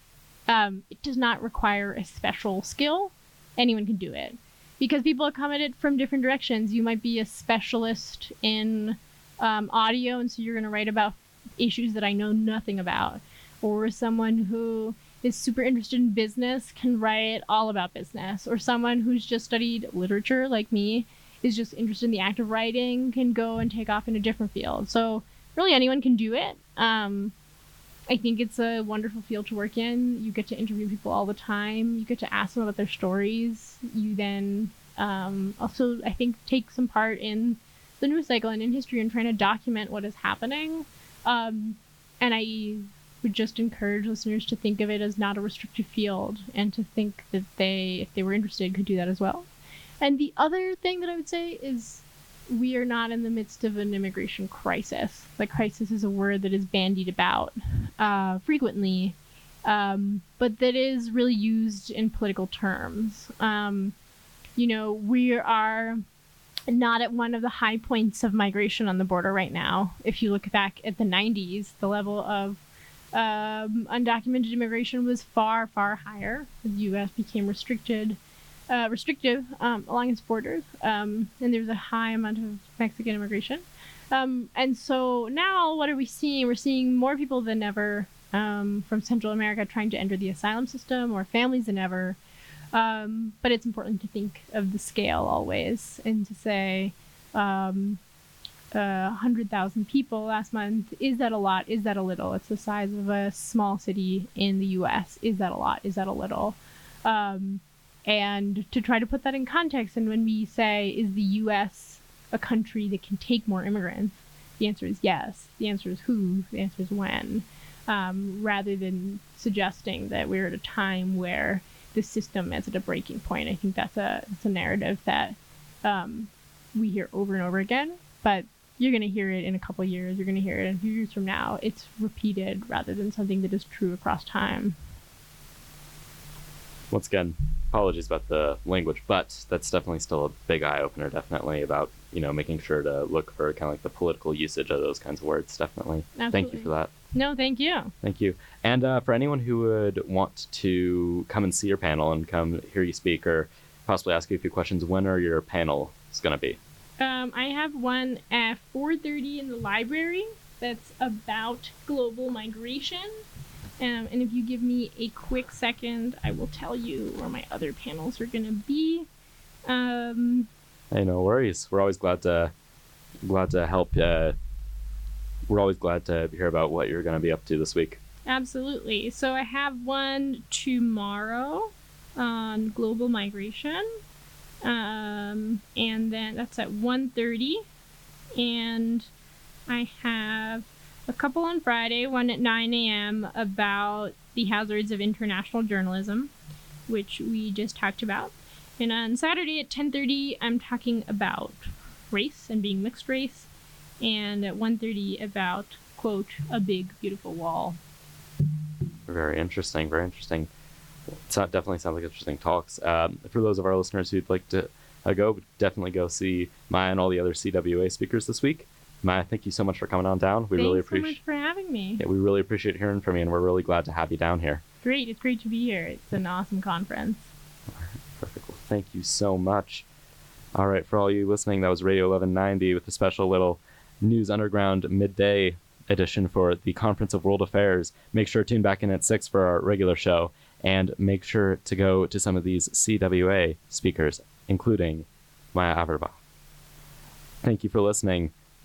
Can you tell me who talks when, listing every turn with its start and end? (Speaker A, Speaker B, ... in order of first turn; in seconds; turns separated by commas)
Speaker A: 0.5-27.3, Speaker A: 28.1-49.5, Speaker A: 50.0-63.9, Speaker A: 64.6-66.0, Speaker A: 66.7-72.6, Speaker A: 73.1-78.2, Speaker A: 78.7-92.2, Speaker A: 92.7-98.0, Speaker A: 98.7-134.8, Speaker B: 136.9-146.9, Speaker A: 146.2-147.9, Speaker B: 148.0-156.6, Speaker A: 157.0-163.1, Speaker A: 163.8-169.1, Speaker A: 169.7-170.5, Speaker B: 170.9-172.5, Speaker B: 173.2-174.4, Speaker B: 175.5-178.0, Speaker A: 178.2-183.9, Speaker A: 184.6-187.6, Speaker A: 188.3-189.1, Speaker A: 189.7-196.3, Speaker A: 196.9-203.5, Speaker A: 204.0-207.8, Speaker B: 209.1-210.5, Speaker B: 211.1-221.2, Speaker A: 220.5-222.0, Speaker B: 222.0-224.6, Speaker A: 224.8-227.3, Speaker B: 227.7-229.8, Speaker B: 230.6-246.2, Speaker B: 247.4-248.3